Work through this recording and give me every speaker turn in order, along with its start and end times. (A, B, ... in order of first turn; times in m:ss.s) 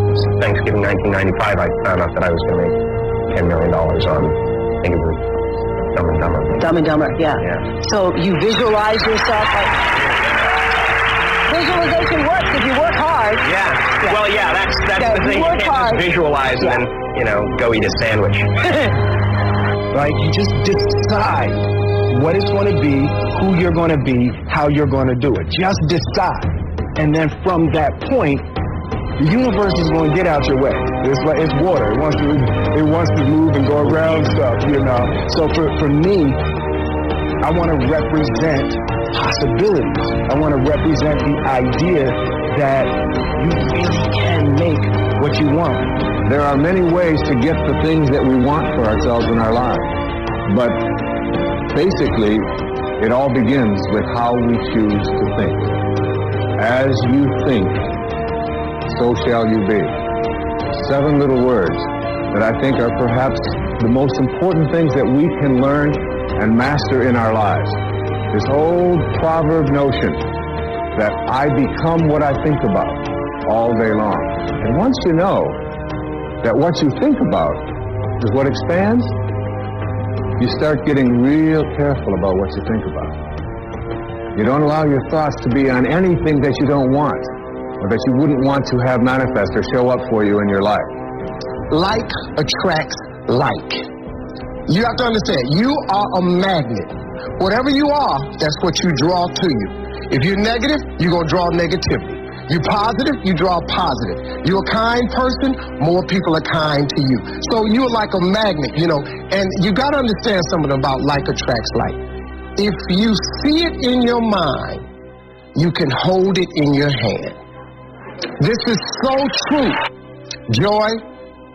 0:00.2-0:06.7 A
0:06.6-0:09.9 B
0:07.4-0:07.7 A
0:11.5-0:14.3 B
0:13.4-0:18.6 A
0:14.9-0:16.8 B
0:19.9-0:28.5 C
0:29.2-0:36.5 C
0:37.4-0:46.0 C
0:46.2-0:55.8 D
0:56.6-0:58.0 D
0:58.8-1:00.1 D
1:00.7-1:10.3 D
1:10.9-1:15.6 D
1:16.4-1:19.2 D
1:20.4-1:23.2 D
1:24.3-1:31.0 D
1:31.7-1:33.9 E
1:34.7-1:54.9 E
1:55.5-1:57.4 E
1:58.4-1:59.8 E
2:00.5-2:01.0 E